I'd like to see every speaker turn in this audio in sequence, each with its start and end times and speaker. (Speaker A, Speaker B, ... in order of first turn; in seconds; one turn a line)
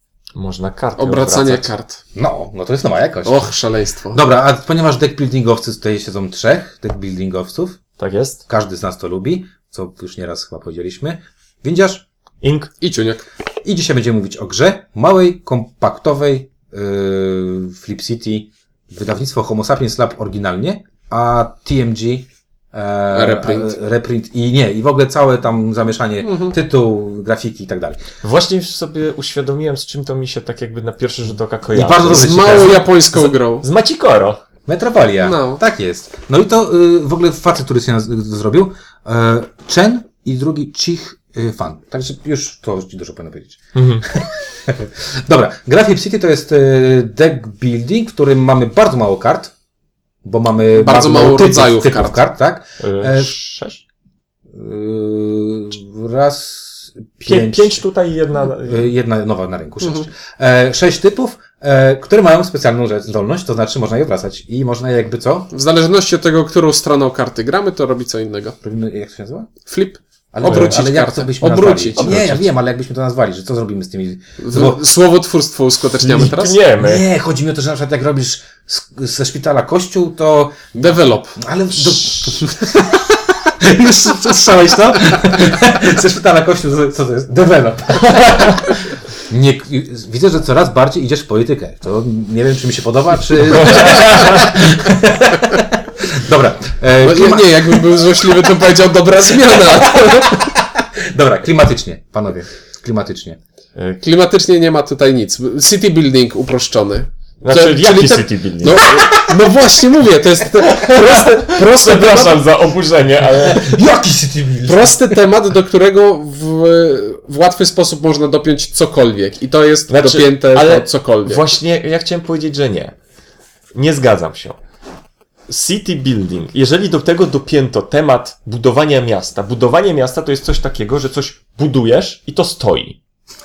Speaker A: 0.3-1.7
Speaker B: 1.0-2.0
Speaker C: 2.1-3.5
Speaker B: 3.2-4.2
Speaker C: 4.1-7.8
Speaker A: 8.0-8.4
Speaker C: 8.5-12.1
Speaker A: 12.4-12.7
Speaker B: 12.8-13.2
Speaker C: 13.6-28.0
Speaker B: 23.1-23.8
Speaker B: 26.2-26.6
Speaker A: 28.2-34.4
Speaker C: 31.7-32.9
Speaker B: 32.1-33.6
Speaker C: 34.7-49.5
Speaker B: 35.2-35.6
Speaker A: 43.8-44.0
Speaker C: 50.2-53.4
Speaker B: 50.8-52.2
Speaker A: 52.8-53.8
Speaker C: 54.5-57.8
Speaker A: 57.2-58.9
Speaker C: 58.5-65.5
Speaker B: 59.8-60.1
Speaker B: 65.5-68.6
Speaker C: 68.6-69.5
Speaker B: 69.7-72.2
Speaker C: 70.3-74.8
Speaker A: 70.4-70.8
Speaker A: 72.0-72.5
Speaker B: 74.4-76.6
Speaker A: 76.0-77.1
Speaker C: 76.8-80.7
Speaker B: 80.8-81.4
Speaker C: 81.4-98.1
Speaker B: 82.1-82.5
Speaker A: 93.5-94.4
Speaker B: 97.0-100.5
Speaker C: 101.0-103.4
Speaker B: 104.0-112.5
Speaker A: 107.4-108.8
Speaker A: 110.7-113.8
Speaker C: 113.4-115.1
Speaker B: 114.7-121.5
Speaker A: 119.9-123.0
Speaker A: 123.8-124.6
Speaker A: 125.5-133.0